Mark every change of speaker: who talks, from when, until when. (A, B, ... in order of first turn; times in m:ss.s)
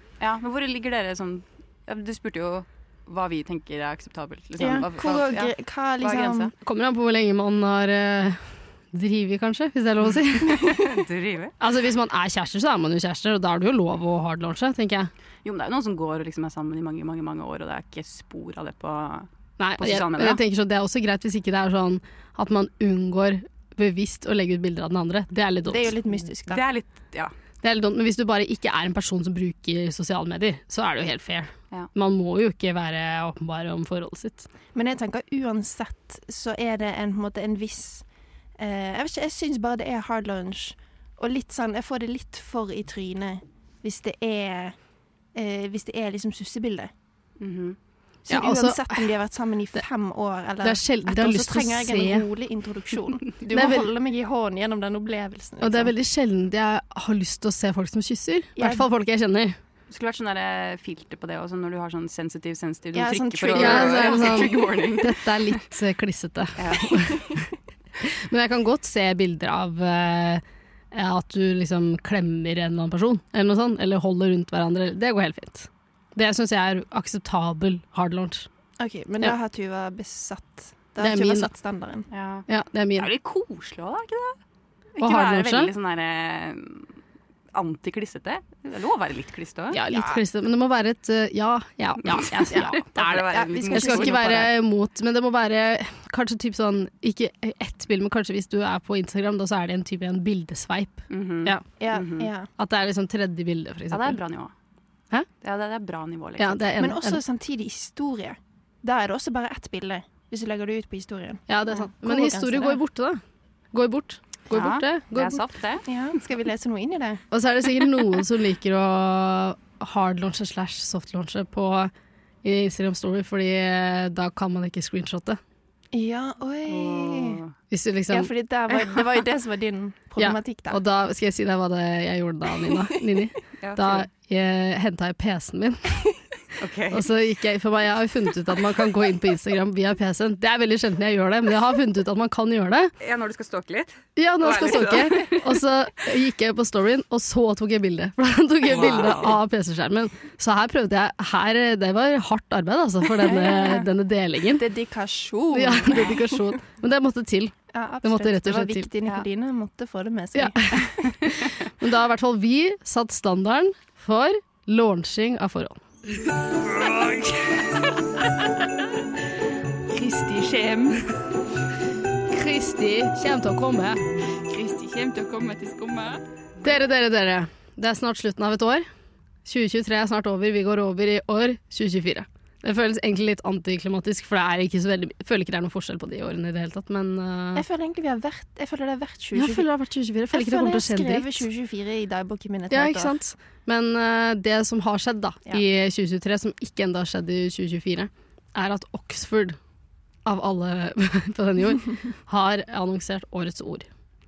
0:00.2-0:06.5 A
0:04.6-0:06.5 B
0:06.6-0:10.8 C
0:10.4-0:11.0 B
0:10.8-0:11.6 A
0:11.6-0:15.1 C
0:15.4-0:20.4 A
0:19.6-0:26.0 C
0:25.6-0:26.6 B
0:26.5-0:27.3 A
0:27.6-0:34.5 C
0:34.7-0:38.0 B
0:38.6-0:44.8 B
0:45.3-0:46.9 B
0:47.4-0:47.8 A
0:48.3-0:55.9 B
0:48.3-0:49.1 C
0:50.6-0:52.3 C
0:53.5-0:53.9 C
0:55.6-0:59.6 C
0:58.6-0:58.8 B
0:59.9-1:05.5 A
1:02.9-1:04.6 B
1:03.6-1:07.4 C
1:06.6-1:07.1 A
1:07.1-1:07.3 B
1:08.0-1:18.5 C
1:18.8-1:22.1 B
1:21.0-1:21.5 C
1:22.1-1:24.4 A
1:22.5-1:23.1 C
1:25.0-1:26.9 A
1:25.0-1:25.7 C
1:27.5-1:29.8 A
1:29.7-1:41.6 C
1:29.9-1:30.2 B
1:32.0-1:34.5 A
1:33.3-1:34.5 B
1:41.1-1:42.3 A
1:41.8-1:42.5 B
1:42.6-1:44.2 C
1:43.9-1:44.5 A
1:45.4-1:46.7 A
1:46.4-1:47.2 C
1:46.8-1:52.8 B
1:51.5-1:53.2 C
1:53.7-1:55.4 C
1:54.5-1:55.9 A
1:55.9-1:57.2 B
1:57.3-2:01.9 C
2:02.4-2:05.4 C
2:05.9-2:07.4 B
2:06.7-2:07.5 A
2:07.7-2:08.3 C
2:08.1-2:10.8 B
2:10.2-2:16.1 C
2:13.6-2:14.1 A
2:16.6-2:17.1 A
2:16.9-2:22.9 C
2:23.0-2:25.5 A
2:24.2-2:34.7 C
2:28.7-2:29.4 A
2:33.2-2:33.9 B
2:34.6-2:36.6 B
2:35.5-2:38.9 C
2:37.7-2:41.3 B
2:40.3-2:45.8 C
2:46.7-2:47.6 A
2:46.8-2:47.2 C
2:49.9-2:51.1 A
2:52.3-2:54.1 C
2:54.5-2:56.2 A
2:56.6-2:58.9 C
2:59.4-3:07.6 C
3:07.6-3:09.7 B
3:09.4-3:11.5 C
3:10.3-3:13.2 B
3:12.7-3:19.6 C
3:20.3-3:23.9 C